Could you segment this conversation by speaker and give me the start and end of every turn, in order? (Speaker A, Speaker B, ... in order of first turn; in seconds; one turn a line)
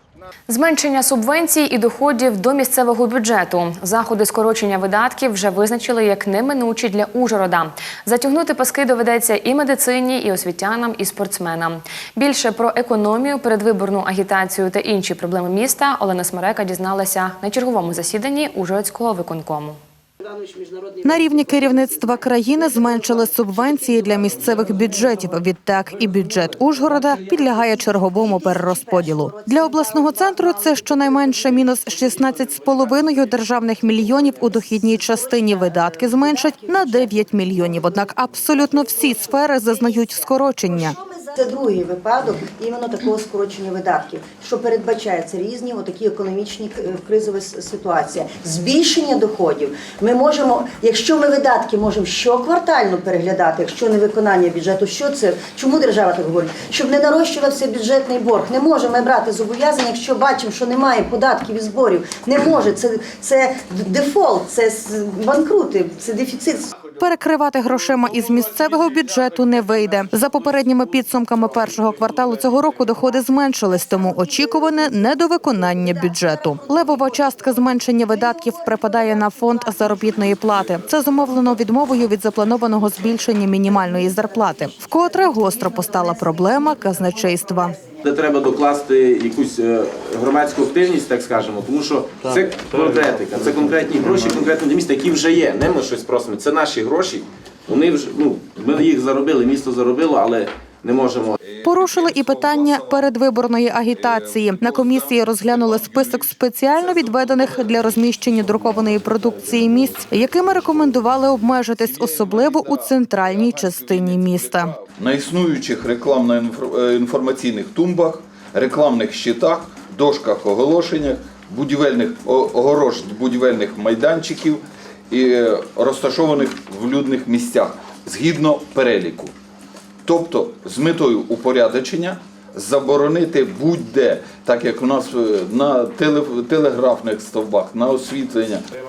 Speaker A: 0.5-19.8
Speaker B: 21.0-41.0
Speaker C: 28.4-30.3
Speaker C: 36.6-37.0
Speaker C: 40.7-66.7
Speaker B: 67.0-87.8
Speaker D: 88.0-101.4
Speaker B: 101.6-114.8
Speaker E: 114.9-129.3
Speaker E: 130.0-138.6